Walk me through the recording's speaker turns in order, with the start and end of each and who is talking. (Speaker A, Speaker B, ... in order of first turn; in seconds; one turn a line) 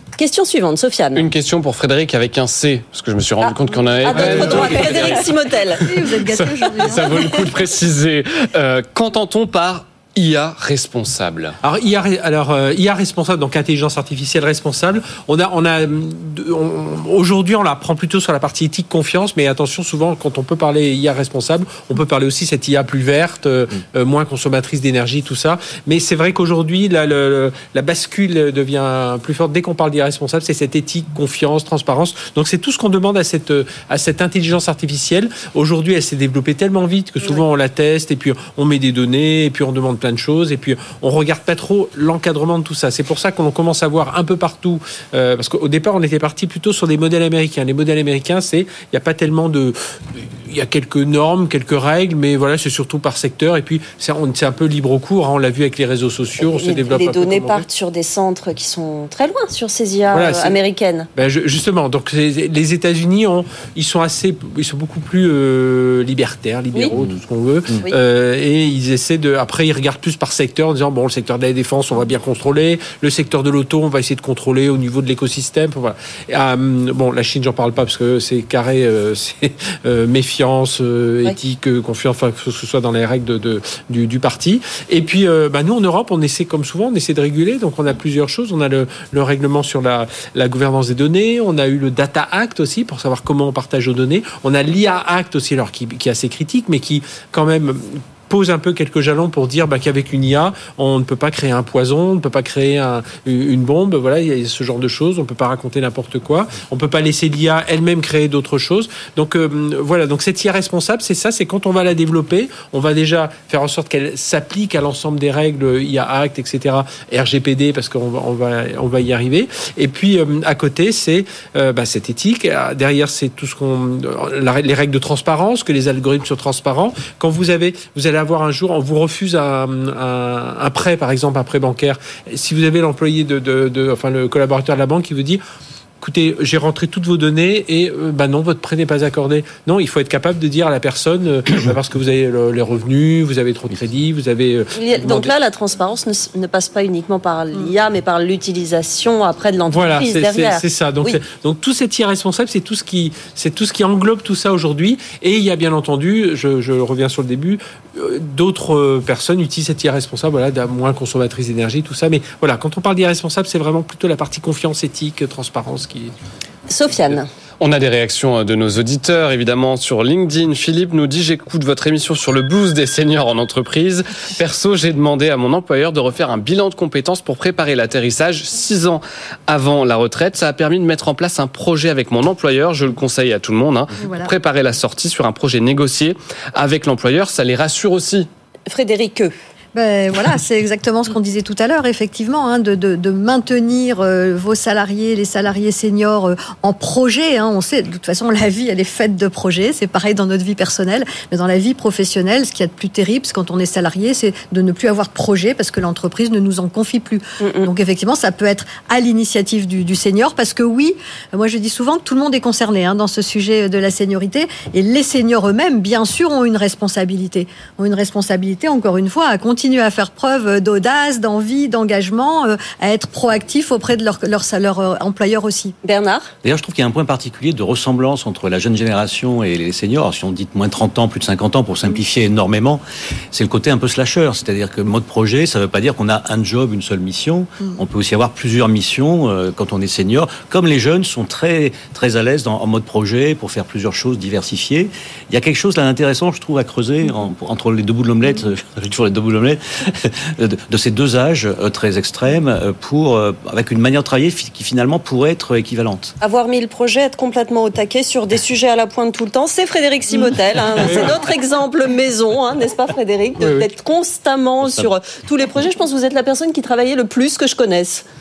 Speaker A: 0.2-1.3
Speaker B: 1.1-11.6
Speaker A: 3.4-5.9
Speaker C: 4.2-4.5
Speaker D: 5.8-7.4
Speaker C: 11.6-57.7
Speaker A: 56.5-61.1
Speaker C: 60.1-60.6
Speaker C: 61.1-135.4
Speaker C: 136.0-145.3
Speaker A: 144.7-151.2
Speaker C: 149.7-166.1
Speaker A: 166.7-167.3
Speaker B: 167.6-188.3
Speaker D: 184.0-184.3
Speaker A: 188.7-189.3
Speaker D: 189.7-225.8
Speaker A: 207.4-207.7
Speaker A: 225.8-226.3
Speaker E: 226.4-232.8
Speaker E: 233.3-256.1
Speaker A: 256.2-268.1
Speaker C: 263.4-263.7
Speaker E: 264.6-264.9